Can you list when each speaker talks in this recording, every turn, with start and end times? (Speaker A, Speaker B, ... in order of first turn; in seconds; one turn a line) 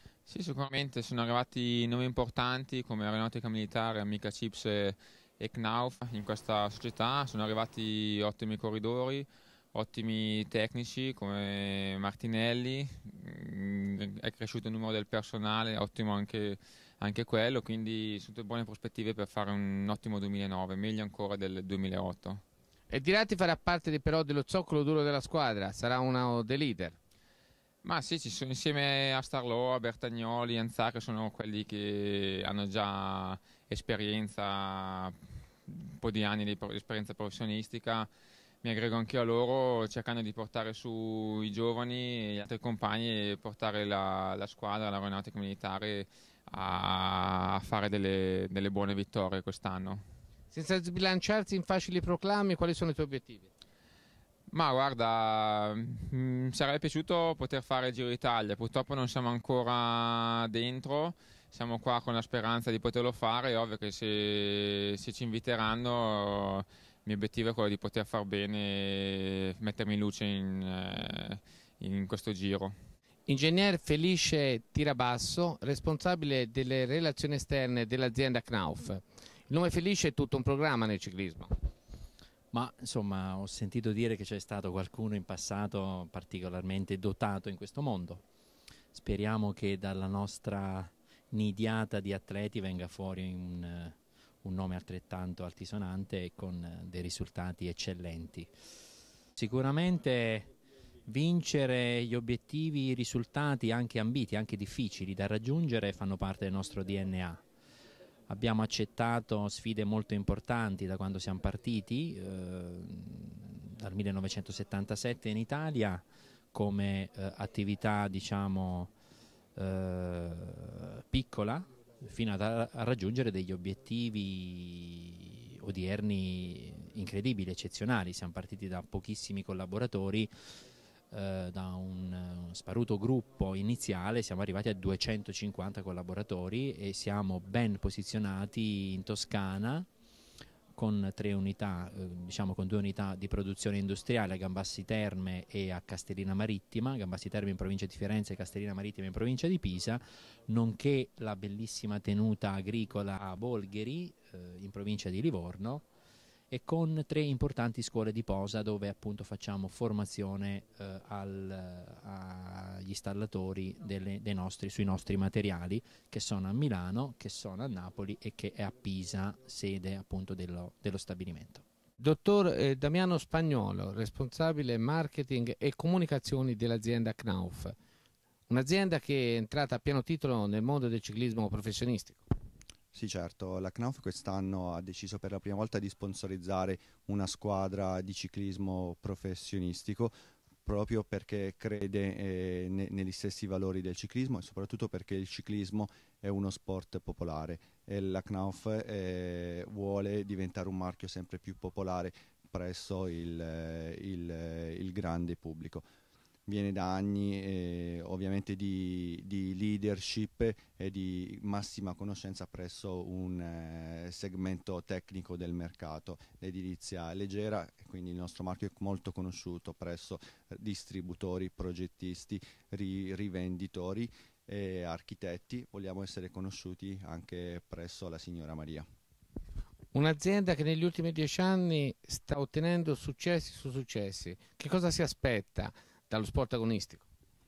Speaker A: 0.3-22.4
Speaker B: 22.9-27.0
Speaker A: 27.8-38.1
Speaker A: 38.6-50.0
Speaker B: 50.5-53.5
Speaker A: 54.5-72.8
Speaker B: 73.3-81.5
Speaker C: 82.5-88.2
Speaker C: 88.9-98.5
Speaker C: 99.4-100.5
Speaker C: 101.1-107.4
Speaker C: 108.3-118.9
Speaker C: 119.6-130.3
Speaker C: 131.1-139.9
Speaker C: 140.8-155.9
Speaker C: 156.5-171.6
Speaker B: 172.0-177.8
Speaker B: 178.5-182.3
Speaker D: 182.9-190.1
Speaker D: 190.7-205.9
Speaker D: 206.5-228.8
Speaker B: 229.9-237.1